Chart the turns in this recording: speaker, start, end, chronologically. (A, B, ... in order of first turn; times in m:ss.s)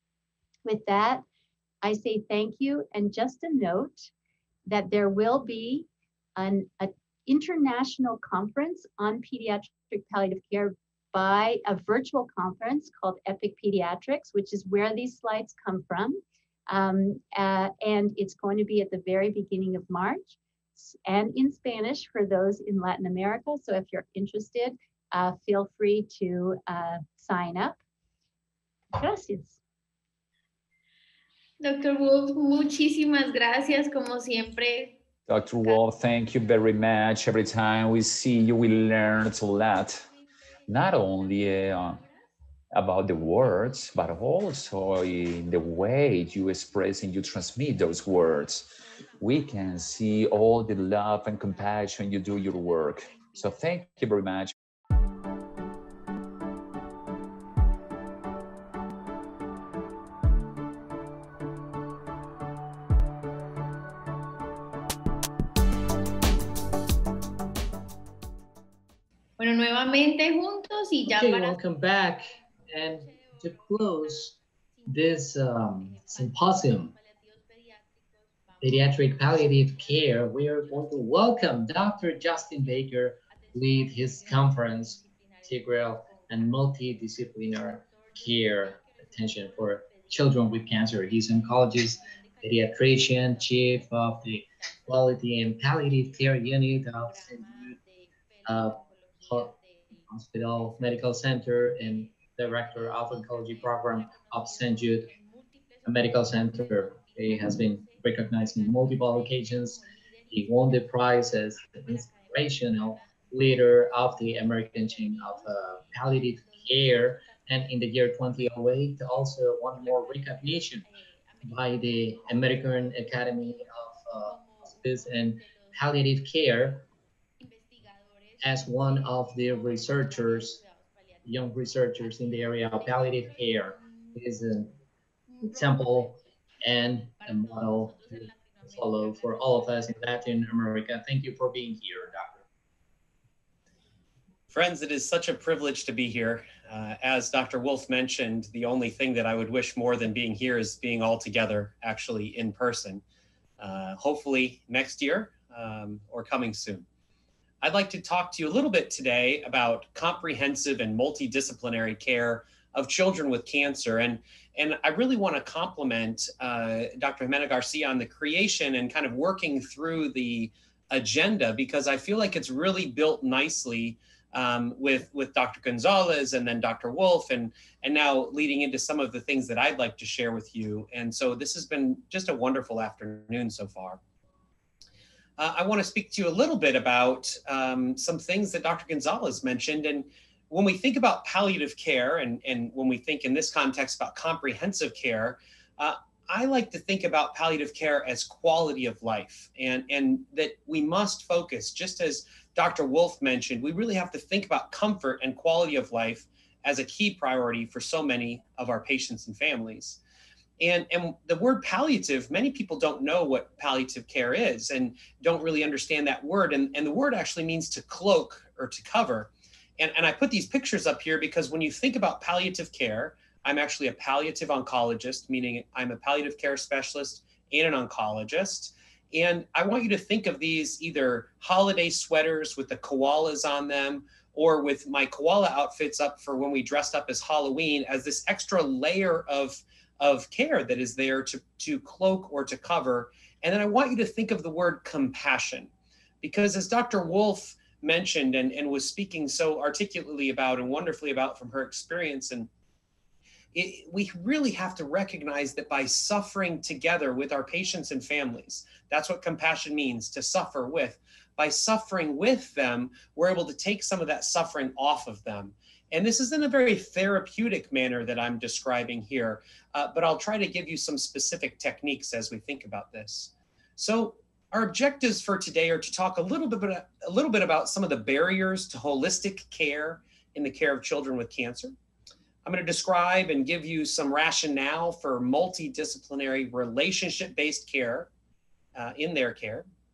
0:00.6-0:01.2 A
0:01.8-0:04.1 A
0:04.7-0:27.8 A
0:28.9-0:29.6 A
0:31.6-0:35.0 B
0:35.3-0:40.1 C
0:40.7-0:42.0 C
0:42.7-0:54.5 C
1:09.4-1:11.6 B
1:11.1-1:14.3 D
1:13.1-1:13.4 B
1:14.9-1:16.9 D
1:16.5-1:18.6 B
1:18.6-1:37.8 D
1:23.5-1:23.9 B
1:25.0-1:25.4 B
1:27.8-1:29.0 B
1:29.8-1:30.1 B
1:32.0-1:32.4 B
1:33.1-1:33.8 B
1:36.4-1:40.0 B
1:38.4-1:38.8 D
1:40.1-1:45.1 D
1:42.1-1:42.4 B
1:43.1-1:44.3 B
1:44.9-1:45.8 B
1:45.8-2:00.8 D
1:46.9-1:47.6 B
1:48.4-1:50.6 B
1:52.0-1:53.3 B
1:54.9-1:55.5 B
1:56.2-1:57.5 B
1:59.8-2:03.6 B
2:01.4-2:06.8 D
2:04.3-2:05.7 B
2:07.4-2:11.2 B
2:08.4-2:10.6 D
2:11.2-2:14.7 D
2:12.0-2:14.5 B
2:15.3-2:16.0 B
2:15.4-2:22.4 D
2:17.3-2:19.8 B
2:24.5-2:33.0 E
2:33.6-2:36.9 E
2:37.6-3:04.0 E
3:05.4-3:30.0 E
3:30.6-4:12.5 E
4:13.5-4:41.8 E
4:42.4-4:48.1 E
4:48.8-4:49.7 E